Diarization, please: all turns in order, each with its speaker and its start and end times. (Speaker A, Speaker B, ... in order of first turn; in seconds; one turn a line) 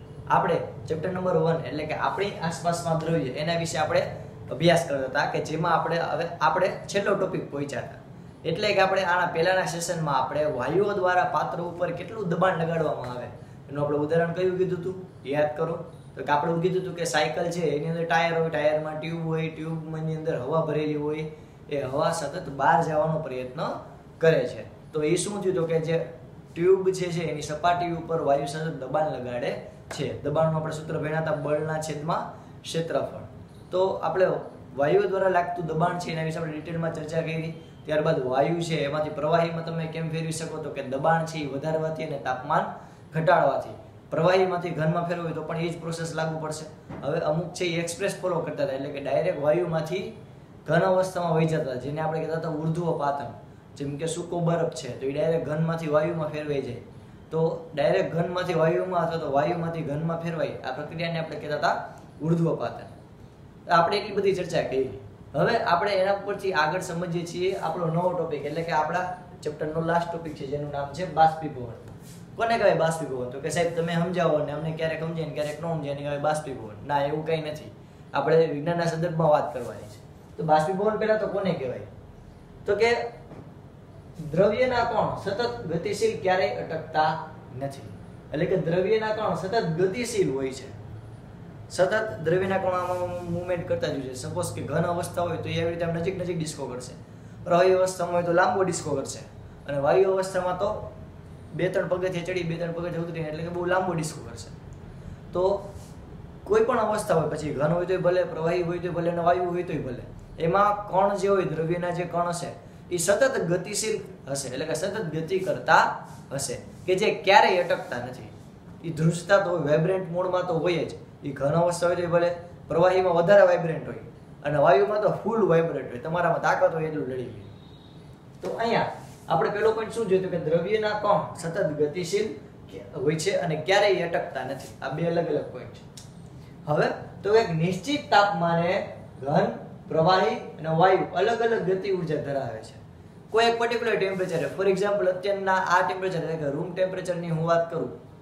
Speaker A: 0.3-62.9
Speaker A: 63.7-81.9
Speaker A: 82.6-83.1
Speaker A: 84.2-90.8
Speaker A: 91.7-100.9
Speaker A: 101.5-104.5
Speaker A: 105.3-105.7
Speaker A: 106.4-127.5
Speaker A: 128.4-135.8
Speaker A: 136.7-147.9